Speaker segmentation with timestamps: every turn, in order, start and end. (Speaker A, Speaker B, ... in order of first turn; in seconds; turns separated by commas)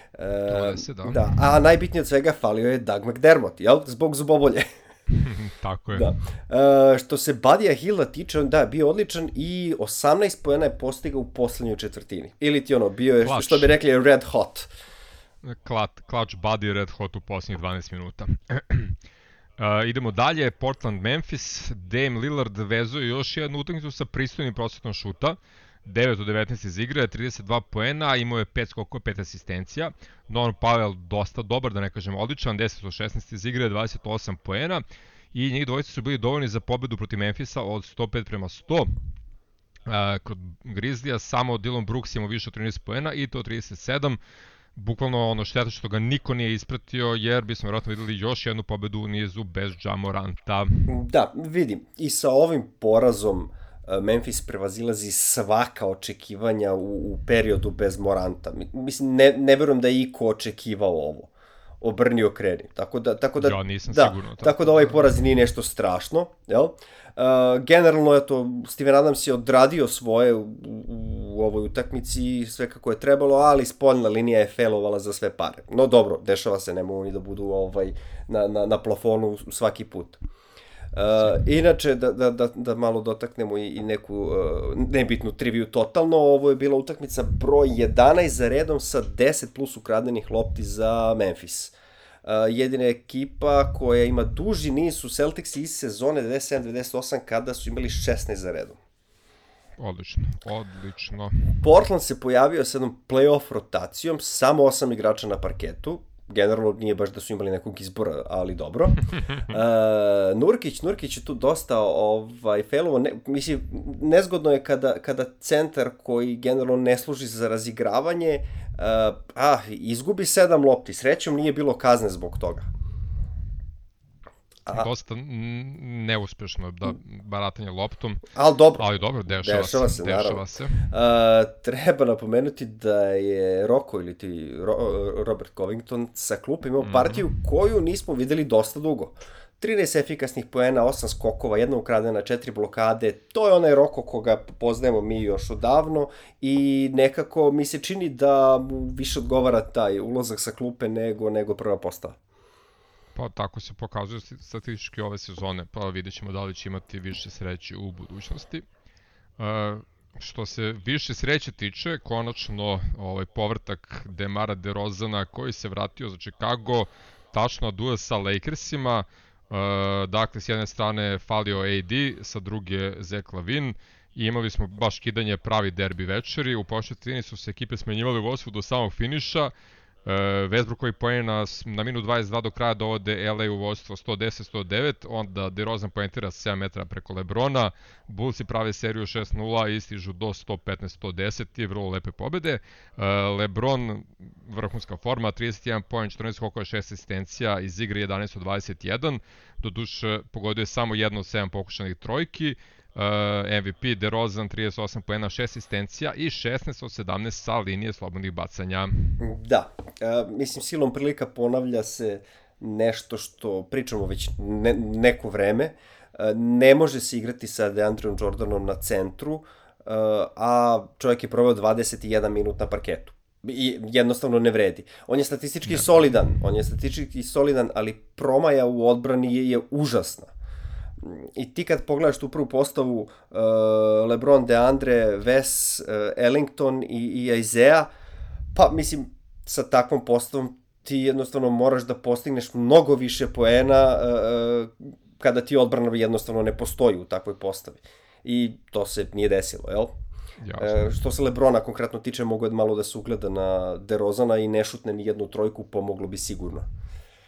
Speaker A: 0.1-4.7, Speaker B: 0.5-1.2, Speaker B: 5.1-6.1, Speaker A: 5.9-14.7, Speaker B: 13.2-13.7, Speaker B: 15.4-19.0, Speaker B: 19.6-38.9, Speaker B: 39.9-44.2, Speaker B: 44.8-50.9, Speaker A: 50.9-80.2, Speaker B: 63.4-65.0, Speaker A: 81.0-91.7, Speaker A: 92.2-98.8, Speaker B: 99.8-101.5, Speaker A: 101.5-122.7, Speaker B: 124.7-128.2, Speaker A: 128.3-128.8, Speaker B: 128.8-130.8, Speaker A: 129.4-152.2, Speaker B: 136.8-137.2, Speaker B: 153.2-158.7, Speaker B: 159.4-179.5, Speaker B: 180.1-209.2, Speaker A: 209.2-230.3, Speaker A: 231.0-237.9, Speaker A: 238.6-249.9, Speaker B: 250.4-250.9, Speaker A: 250.6-256.7